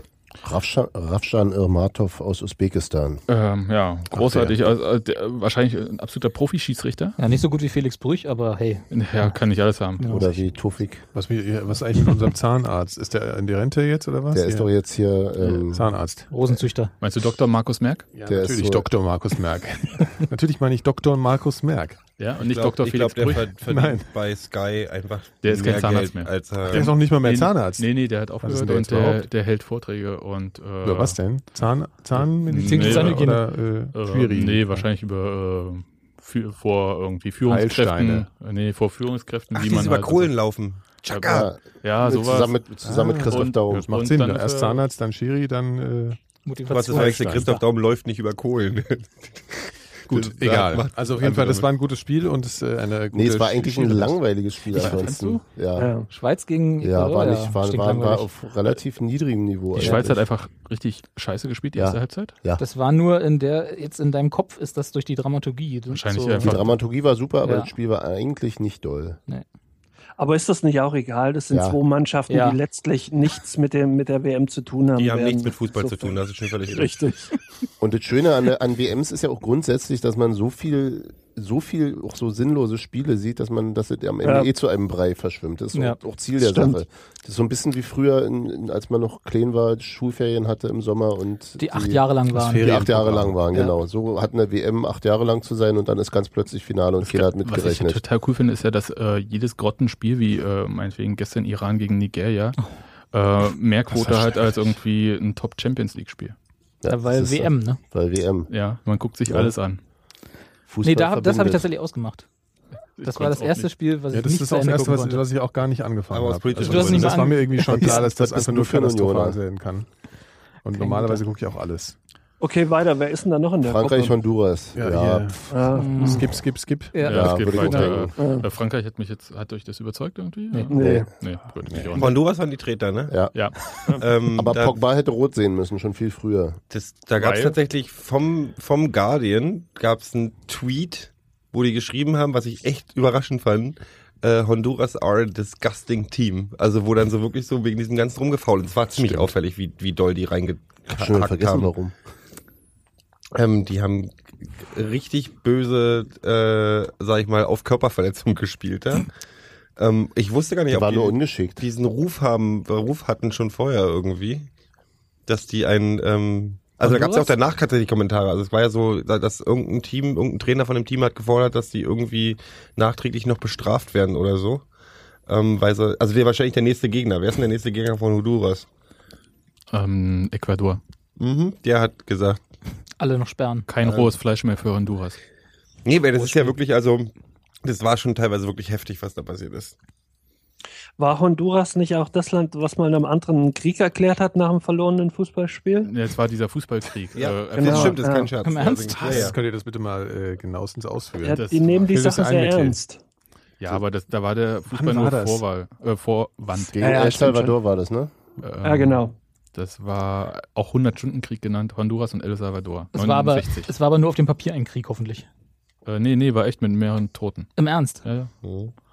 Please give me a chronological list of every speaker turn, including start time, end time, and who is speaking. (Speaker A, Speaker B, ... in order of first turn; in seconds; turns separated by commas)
Speaker A: 0.4-3.2, Speaker B: 3.3-7.2, Speaker A: 4.2-4.5, Speaker C: 7.2-9.3, Speaker B: 8.9-10.2, Speaker C: 10.0-10.4, Speaker A: 10.1-11.0, Speaker D: 11.1-14.7, Speaker A: 14.3-15.9, Speaker D: 15.7-16.3, Speaker C: 16.3-16.9, Speaker B: 17.0-18.1, Speaker D: 18.1-22.0, Speaker A: 18.2-18.9, Speaker B: 22.2-23.5, Speaker E: 22.4-26.9, Speaker D: 23.7-24.1, Speaker B: 25.4-26.3, Speaker D: 26.7-29.3, Speaker B: 27.2-31.2, Speaker D: 30.8-34.8, Speaker B: 32.1-33.4, Speaker C: 32.6-33.4, Speaker B: 33.9-40.3, Speaker D: 37.4-38.3, Speaker E: 39.5-41.5, Speaker B: 41.0-42.6, Speaker A: 41.2-43.9, Speaker D: 42.8-46.2, Speaker B: 43.3-44.8, Speaker C: 46.5-47.6, Speaker E: 46.7-51.6, Speaker D: 46.9-47.5, Speaker D: 50.1-54.2, Speaker A: 53.1-55.9, Speaker B: 54.7-55.4, Speaker F: 55.8-56.1, Speaker C: 56.1-58.3, Speaker A: 56.8-60.2, Speaker B: 59.7-62.3, Speaker A: 61.8-62.6, Speaker C: 62.6-66.6, Speaker B: 65.9-66.8, Speaker A: 66.4-69.2, Speaker C: 67.4-67.7, Speaker F: 70.2-77.3, Speaker A: 71.5-71.8, Speaker C: 72.3-72.6, Speaker E: 75.0-77.0, Speaker A: 77.8-92.0, Speaker F: 84.2-84.5, Speaker F: 86.4-86.8, Speaker C: 91.6-92.8, Speaker D: 92.3-93.4, Speaker A: 92.6-98.0, Speaker B: 97.0-102.6, Speaker B: 103.1-106.3, Speaker D: 103.9-104.7, Speaker A: 106.8-108.5, Speaker C: 106.9-107.8, Speaker B: 108.5-109.8, Speaker A: 109.3-109.5, Speaker A: 110.7-111.7, Speaker C: 110.8-112.2, Speaker B: 113.0-113.7, Speaker C: 113.0-115.2, Speaker D: 114.1-119.9, Speaker E: 116.1-117.5, Speaker C: 116.6-118.0, Speaker A: 117.7-119.4, Speaker D: 120.6-121.9, Speaker C: 120.7-121.2, Speaker F: 122.4-124.2, Speaker A: 123.6-125.4, Speaker D: 124.7-128.0, Speaker F: 125.5-126.2, Speaker C: 125.7-126.2, Speaker C: 126.9-127.6, Speaker B: 127.0-132.2, Speaker A: 127.1-128.2, Speaker F: 128.2-128.5, Speaker F: 130.7-131.1, Speaker A: 130.8-131.1, Speaker D: 131.6-132.0, Speaker E: 131.9-133.2, Speaker A: 133.1-133.3, Speaker B: 133.3-133.8, Speaker E: 134.0-134.8, Speaker A: 134.3-136.6, Speaker E: 136.7-151.7, Speaker B: 137.2-137.6, Speaker D: 148.9-149.3, Speaker A: 150.9-151.9, Speaker E: 153.3-159.1, Speaker E: 159.8-164.5, Speaker A: 160.7-161.6, Speaker E: 165.3-174.6, Speaker C: 166.8-167.3, Speaker E: 175.3-178.7, Speaker B: 179.7-180.8, Speaker E: 181.2-182.4, Speaker C: 183.0-183.7, Speaker B: 183.7-185.2, Speaker E: 183.8-184.1, Speaker E: 185.8-189.7, Speaker C: 186.2-186.4, Speaker F: 191.0-195.9, Speaker B: 195.8-198.0, Speaker E: 197.1-199.3, Speaker F: 197.5-198.3, Speaker C: 198.4-199.3, Speaker D: 199.0-202.8, Speaker F: 201.2-203.0, Speaker B: 201.3-201.9, Speaker B: 203.6-207.1, Speaker D: 204.7-205.4, Speaker A: 206.6-208.1, Speaker F: 206.8-207.6, Speaker B: 208.4-213.7, Speaker F: 208.6-209.2, Speaker C: 212.9-215.3, Speaker B: 215.8-218.3, Speaker C: 217.6-218.0, Speaker E: 218.4-218.7